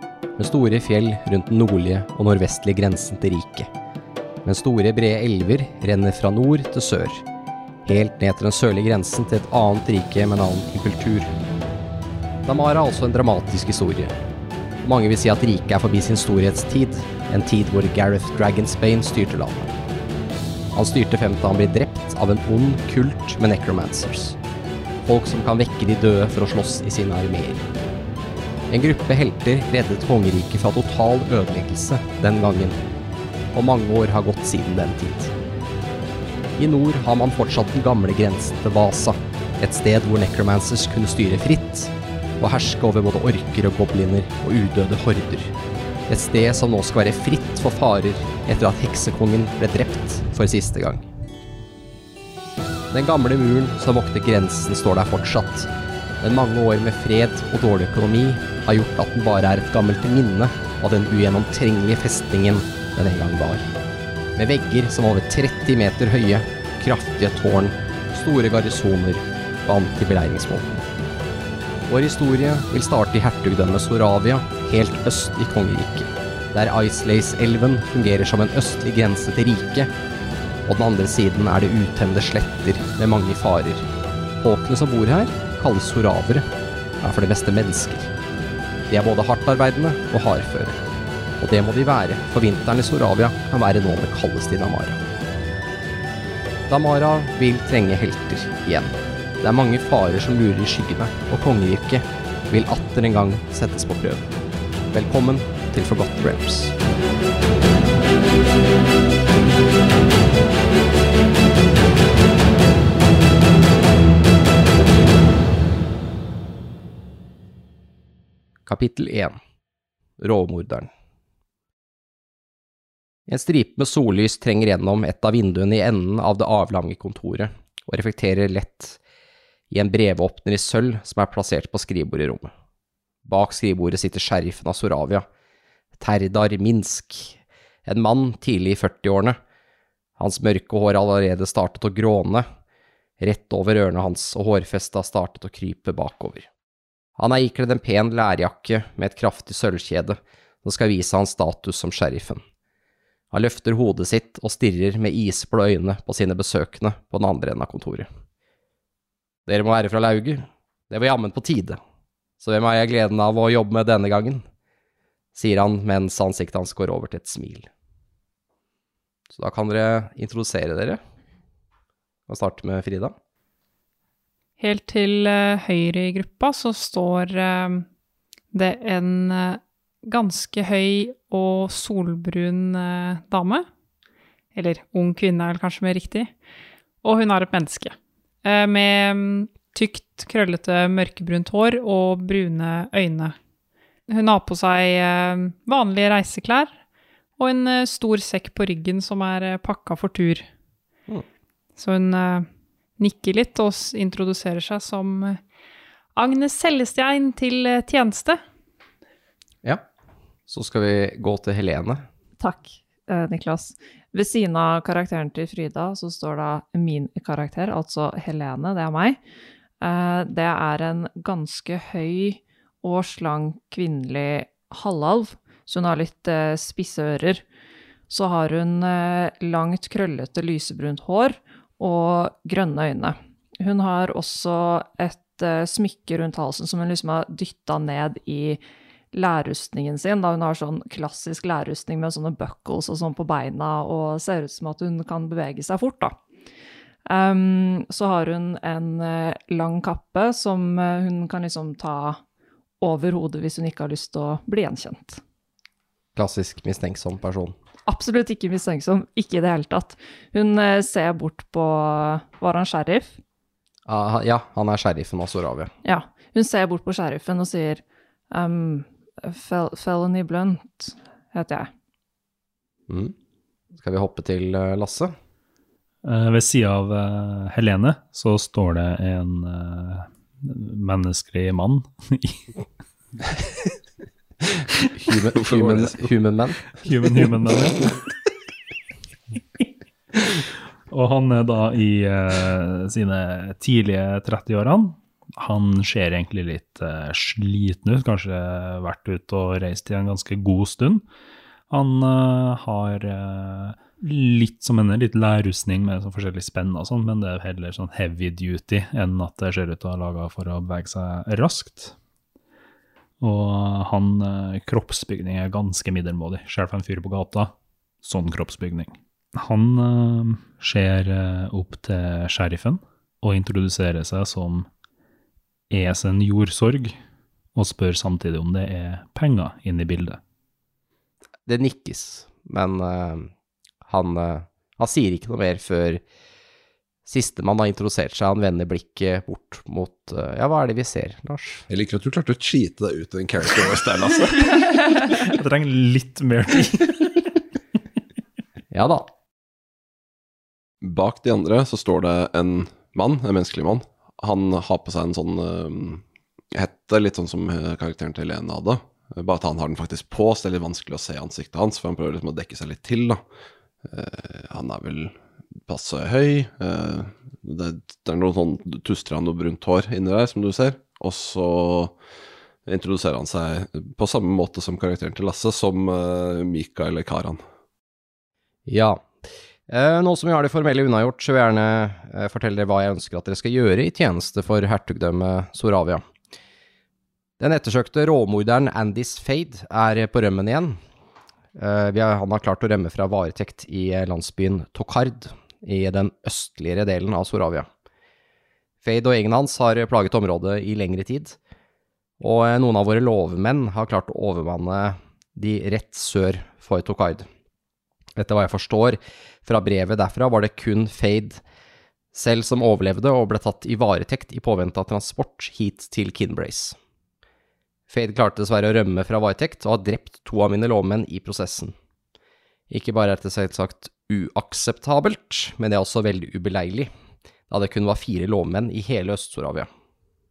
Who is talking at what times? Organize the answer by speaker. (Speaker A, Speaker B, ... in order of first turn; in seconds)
Speaker A: 0.4-3.7, 4.4-7.2, 7.8-11.3, 12.4-14.2, 14.8-19.8, 20.7-24.4, 25.0-27.7, 28.7-32.8, 33.5-35.3, 36.6-45.5, 46.1-51.1, 52.9-55.7, 56.2-63.7, 64.3-70.9, 71.9-79.9, 80.7-83.9, 84.4-86.5, 87.0-88.1, 88.9-90.8, 91.4-95.0, 96.7-104.3, 104.9-106.8, 118.7-119.4, 120.2-120.9, 123.3-129.0, 129.7-132.5, 133.2-135.3, 136.0-139.4, 140.2-142.5, 143.2-146.5, 147.2-152.4, 153.3-158.1, 159.5-161.8, 162.4-164.4, 165.3-167.7, 169.3-171.0, 172.3-173.1, 210.5-212.1, 256.1-257.5, 263.9-265.7, 272.9-273.1, 273.7-275.1, 284.9-286.6, 331.4-333.3, 333.9-336.0, 337.1-341.6, 348.7-349.1, 378.6-379.1, 379.7-386.0, 387.4-390.8, 391.6-397.7, 398.8-401.4, 402.2-407.3, 408.1-411.4, 412.1-416.8, 417.9-421.8, 422.7-426.9, 427.5-429.7
Speaker B: 174.6-177.9, 178.5-183.7, 184.6-186.3, 187.0-193.4, 194.1-196.8, 197.4-200.5, 201.8-205.4, 206.2-208.4
Speaker C: 212.4-219.2, 219.8-227.4, 228.1-238.6, 239.1-246.2, 247.1-252.2, 252.8-255.2, 257.9-263.2, 265.8-271.7
Speaker D: 276.0-282.5, 286.8-288.0, 290.9-301.0, 301.7-311.9, 313.2-324.7, 325.7-327.0, 327.5-330.2, 345.1-347.2
Speaker E: 285.3-286.0, 341.7-345.2, 350.8-356.0, 356.5-363.2, 363.9-372.0, 372.6-377.4